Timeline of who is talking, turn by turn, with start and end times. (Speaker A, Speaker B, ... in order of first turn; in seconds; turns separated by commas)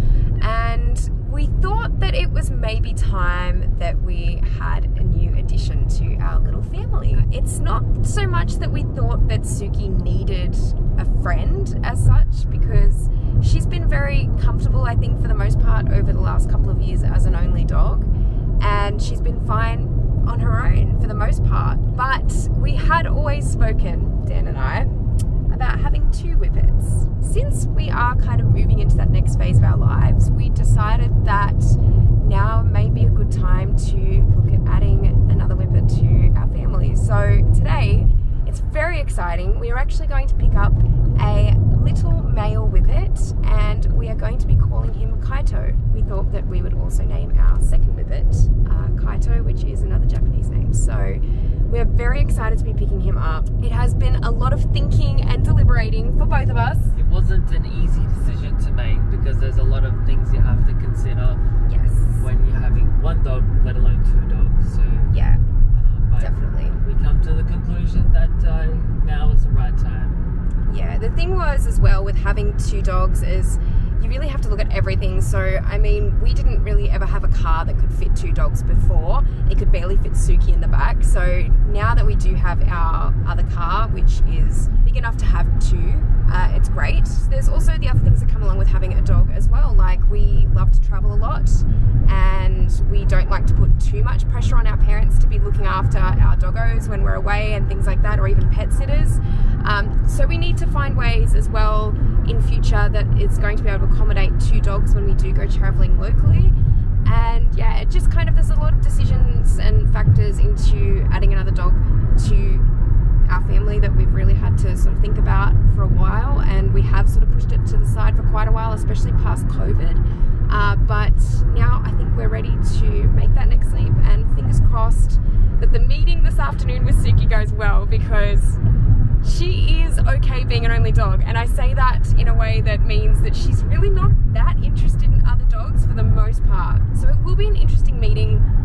Speaker A: 0.4-18.1, Speaker A: 18.6-24.9, Speaker A: 25.5-57.0, Speaker B: 57.0-61.4, Speaker A: 61.7-62.3, Speaker B: 62.2-65.1, Speaker A: 65.1-65.4, Speaker B: 65.7-70.2, Speaker A: 66.2-66.8, Speaker A: 70.7-112.7, Speaker A: 113.3-128.6, Speaker A: 129.2-138.4